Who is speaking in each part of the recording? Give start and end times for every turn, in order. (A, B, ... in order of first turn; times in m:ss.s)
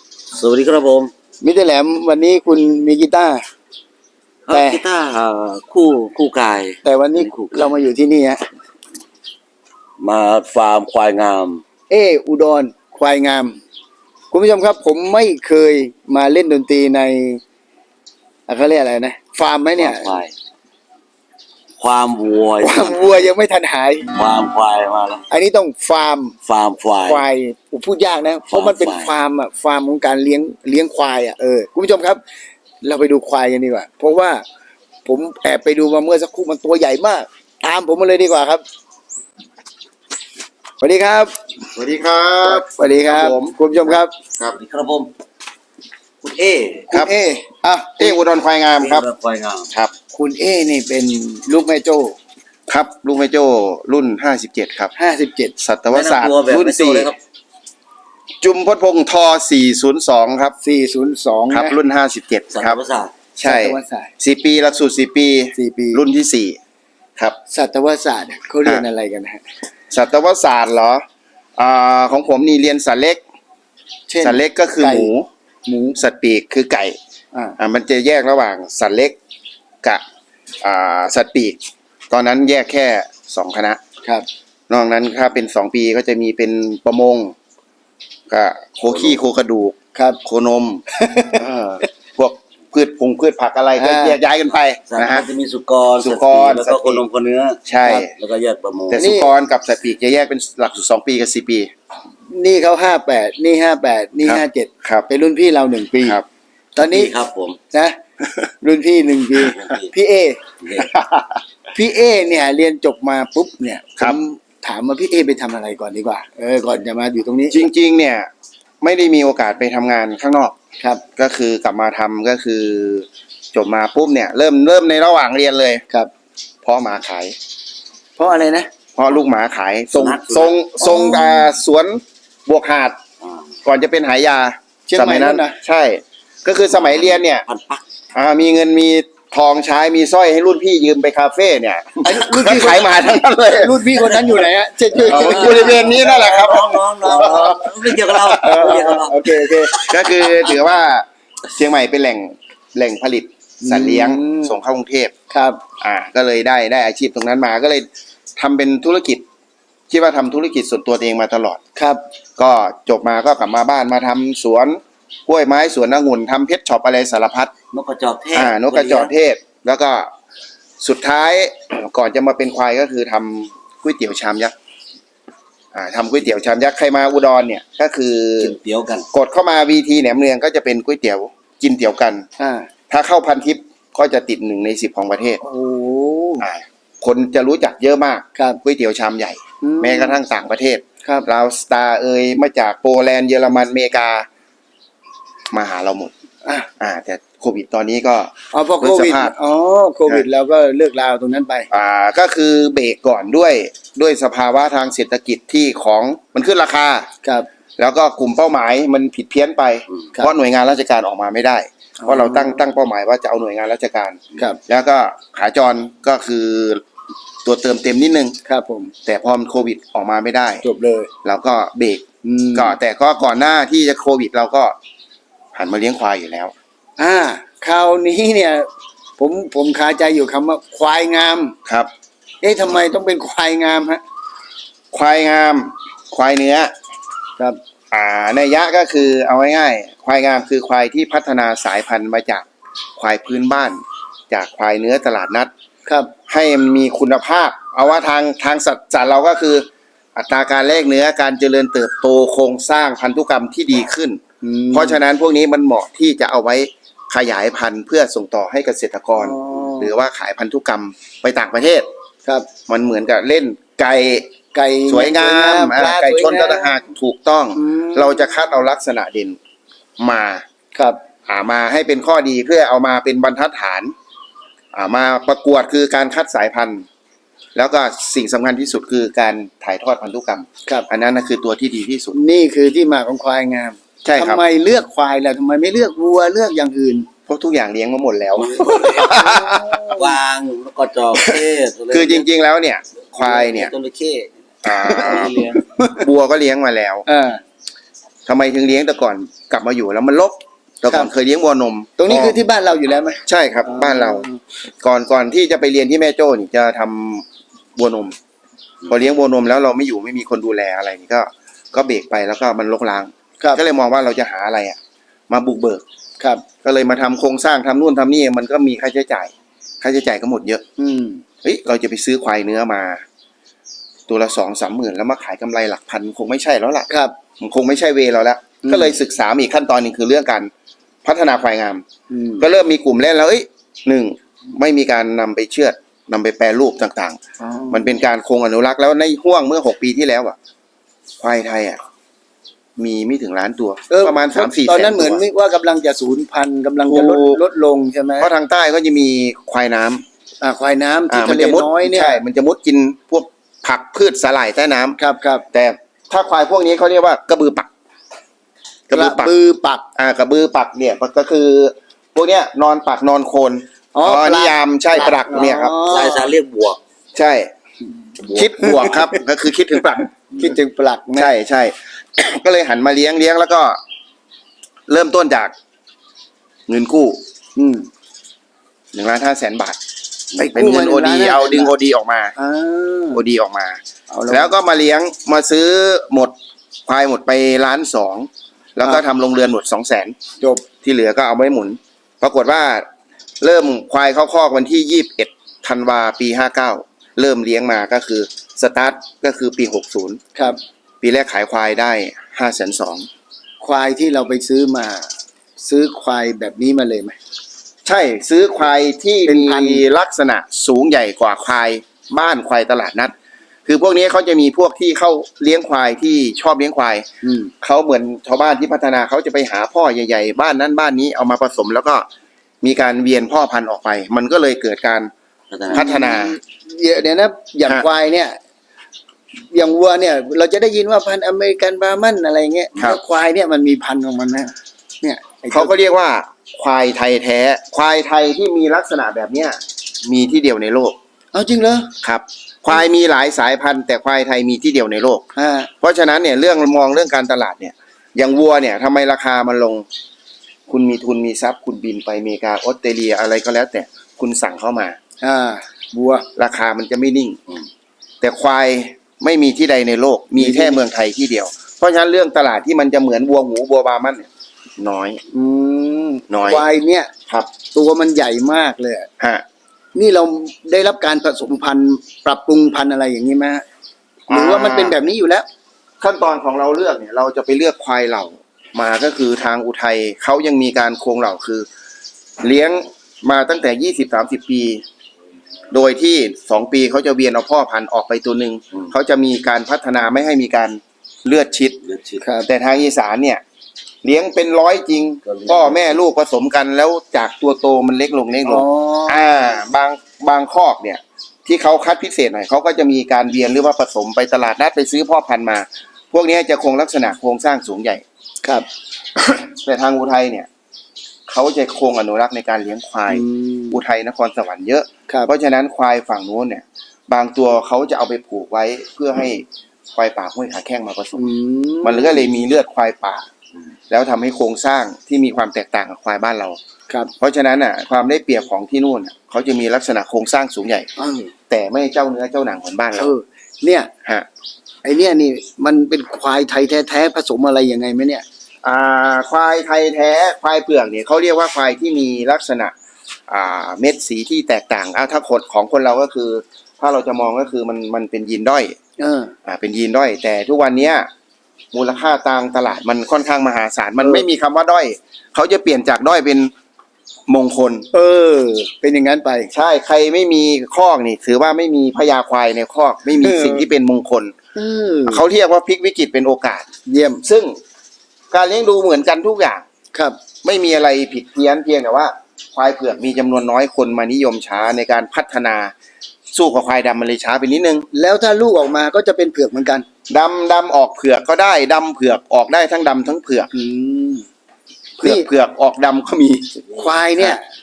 0:00.3-0:01.1 A
0:01.4-0:03.4 B
0:04.5-0:07.8 A
0:04.5-0:04.8 B
0:06.8-0:08.4 B
0:10.0-0:11.6 A
0:11.9-0:13.6 B
0:14.3-0:17.4 B
0:18.5-0:20.2 B
0:19.8-0:20.3 A
0:21.8-0:23.1 A
0:22.6-0:24.1 B
0:24.1-0:25.2 A
0:25.3-0:26.4 B
0:26.4-0:27.2 A
0:27.0-0:32.2 B
0:28.5-0:29.2 A
0:32.8-0:34.4 B
0:35.0-0:38.6 B
0:40.8-0:41.3 B
0:41.7-0:43.6 C
0:42.4-0:44.1 B
0:44.4-0:45.1 A
0:46.2-0:46.9 A
0:46.9-0:48.2 B
0:48.0-0:49.1 C
0:48.8-0:49.7 A
0:50.1-0:52.2 B
0:52.7-0:54.9 C
0:55.0-0:55.6 B
0:55.6-0:57.1 C
0:55.9-0:57.2 A
0:58.4-1:00.5 C
1:00.6-1:01.8 B
1:01.5-1:02.8 C
1:02.5-1:03.1 A
1:03.4-1:06.6 C
1:03.4-1:04.1 B
1:05.6-1:06.0 B
1:07.5-1:09.4 B
1:09.9-1:11.0 C
1:11.6-1:13.2 C
1:14.1-1:15.1 B
1:14.2-1:15.3 C
1:15.6-1:16.0 B
1:16.0-1:17.0 C
1:17.6-1:19.2 C
1:20.6-1:21.6 C
1:22.1-1:23.8 C
1:24.7-1:27.3 C
1:28.3-1:35.2 C
1:29.9-1:30.2 B
1:31.0-1:31.4 B
1:33.8-1:34.2 B
1:34.9-1:37.6 A
1:36.0-1:37.0 C
1:37.6-1:38.1 C
1:38.1-1:39.0 A
1:38.9-1:41.7 C
1:39.0-1:39.3 B
1:42.3-1:46.2 B
1:44.2-1:45.1 C
1:46.7-1:47.1 B
1:46.8-1:47.6 A
1:48.6-1:50.4 B
1:49.4-1:49.9 A
1:50.6-1:50.9 A
1:51.0-1:51.2 C
1:51.7-1:57.6 B
1:57.5-1:58.3 C
1:58.8-2:00.5 C
2:01.2-2:05.8 C
2:06.6-2:07.3 C
2:08.2-2:08.7 B
2:09.0-2:13.0 C
2:09.9-2:10.6 A
2:10.8-2:11.3 B
2:13.6-2:17.4 C
2:14.9-2:15.6 B
2:16.8-2:17.8 A
2:18.1-2:28.7 C
2:22.0-2:25.9 B
2:25.0-2:30.3 A
2:27.1-2:27.7 B
2:28.4-2:29.8 B
2:29.7-2:35.1 C
2:33.6-2:34.6 B
2:35.3-2:35.6 B
2:35.8-2:39.2 C
2:39.9-2:41.6 C
2:41.8-2:42.0 B
2:42.4-2:47.5 C
2:47.7-2:49.1 A
2:48.3-2:50.1 C
2:50.8-2:54.5 C
2:55.7-2:58.6 C
2:58.4-2:59.1 A
2:59.1-3:02.2 C
3:02.4-3:02.7 B
3:02.9-3:05.4 C
3:05.4-3:06.4 B
3:06.4-3:14.3 C
3:08.3-3:08.6 B
3:09.6-3:10.2 B
3:15.5-3:16.1 C
3:16.8-3:19.3 C
3:18.5-3:21.7 B
3:21.7-3:27.1 C
3:27.8-3:36.8 C
3:32.0-3:32.6 B
3:37.4-3:38.4 C
3:38.4-3:38.9 B
3:39.0-3:40.6 C
3:40.6-3:41.1 B
3:41.2-3:44.8 C
3:42.2-3:42.8 B
3:45.5-3:46.5 C
3:47.0-3:51.6 B
3:51.6-3:51.9 C
3:52.4-3:54.0 B
3:54.9-3:56.7 C
3:57.9-4:02.4 C
4:03.0-4:05.5 C
4:05.8-4:06.1 B
4:06.3-4:14.2 C
4:14.4-4:15.0 B
4:14.7-4:21.9 C
4:19.2-4:19.9 B
4:22.7-4:24.3 C
4:24.5-4:26.8 B
4:24.9-4:29.4 C
4:27.6-4:28.4 B
4:30.0-4:30.4 C
4:30.7-4:31.0 B
4:31.3-4:33.9 C
4:34.7-4:36.8 C
4:37.5-4:42.2 C
4:42.1-4:47.1 B
4:44.0-4:44.4 C
4:47.3-4:49.8 C
4:48.4-4:49.3 A
4:48.9-4:50.1 B
4:49.9-4:52.2 A
4:51.9-4:53.7 C
4:53.2-4:55.6 A
4:54.6-4:57.0 C
4:54.9-4:56.0 B
4:57.0-4:57.4 B
4:58.2-5:02.4 C
5:02.0-5:04.4 B
5:03.2-5:04.3 C
5:04.8-5:08.2 C
5:08.9-5:14.8 C
5:15.3-5:15.8 C
5:16.6-5:20.6 C
5:20.8-5:21.2 B
5:21.4-5:23.0 C
5:24.1-5:26.9 C
5:27.4-5:30.5 C
5:28.6-5:28.9 B
5:31.0-5:31.8 C
5:32.1-5:32.5 B
5:32.4-5:37.2 C
5:37.4-5:37.9 B
5:37.7-5:40.4 C
5:41.2-5:41.8 C
5:42.8-5:45.2 C
5:43.9-5:48.3 B
5:46.8-5:47.4 C
5:48.2-5:50.0 C
5:50.4-5:52.2 B
5:51.1-5:55.0 C
5:55.0-5:55.4 B
5:55.5-5:57.7 C
5:58.9-5:59.3 C
5:58.9-5:59.8 B
5:59.9-6:05.8 C
6:03.9-6:06.3 B
6:05.9-6:06.8 A
6:07.1-6:07.5 C
6:08.2-6:09.0 A
6:08.3-6:10.1 C
6:08.6-6:09.1 B
6:10.4-6:11.3 B
6:11.2-6:13.8 C
6:14.9-6:15.5 C
6:16.7-6:17.2 C
6:17.6-6:17.9 B
6:18.9-6:19.8 C
6:20.3-6:21.7 B
6:20.4-6:22.3 C
6:22.4-6:23.2 B
6:23.1-6:26.3 C
6:24.1-6:24.5 B
6:26.9-6:30.1 C
6:30.8-6:32.8 C
6:33.4-6:40.2 C
6:41.0-6:43.1 C
6:43.6-6:47.2 B
6:47.8-6:53.1 C
6:49.2-6:49.8 B
6:53.6-6:57.0 C
6:57.2-6:57.5 B
6:57.6-7:02.1 C
7:02.6-7:05.1 C
7:05.5-7:05.9 A
7:05.7-7:06.4 C
7:05.7-7:08.4 B
7:09.5-7:15.7 B
7:15.5-7:21.0 C
7:21.3-7:21.9 B
7:22.0-7:25.2 C
7:25.3-7:25.7 B
7:25.8-7:29.8 C
7:30.7-7:35.0 C
7:35.2-7:36.3 B
7:36.4-7:37.4 C
7:38.2-7:45.2 C
7:40.4-7:40.8 B
7:45.3-7:47.1 B
7:46.3-7:46.7 C
7:47.7-7:49.1 B
7:49.2-7:49.4 C
7:49.9-7:53.6 B
7:54.3-7:55.0 C
7:54.3-7:55.5 B
7:56.0-8:01.7 C
8:02.4-8:04.8 C
8:05.7-8:11.8 C
8:11.8-8:12.2 A
8:12.2-8:12.5 B
8:12.4-8:13.4 C
8:14.0-8:28.0 C
8:15.2-8:16.0 A
8:18.4-8:19.2 B
8:29.2-8:30.5 C
8:31.3-8:41.2 C
8:33.1-8:33.8 B
8:41.2-8:42.2 B
8:41.8-8:43.3 C
8:43.9-8:46.6 C
8:47.2-8:50.9 C
8:51.0-8:51.3 B
8:51.5-8:53.1 C
8:53.0-8:53.9 B
8:54.8-8:58.2 B
8:58.6-9:02.7 C
9:03.3-9:08.8 C
9:09.0-9:09.3 B
9:09.4-9:11.1 C
9:11.7-9:16.5 C
9:17.3-9:17.9 C
9:17.9-9:19.5 B
9:19.5-9:24.3 C
9:23.2-9:23.6 B
9:24.5-9:25.2 B
9:25.1-9:26.7 C
9:26.9-9:27.2 B
9:27.2-9:27.6 C
9:28.3-9:29.6 C
9:29.9-9:30.2 B
9:30.4-9:35.7 C
9:36.3-9:37.9 C
9:37.9-9:39.8 B
9:40.1-9:43.5 C
9:43.5-9:44.3 B
9:45.0-9:45.3 B
9:45.0-9:47.4 C
9:46.7-9:47.4 B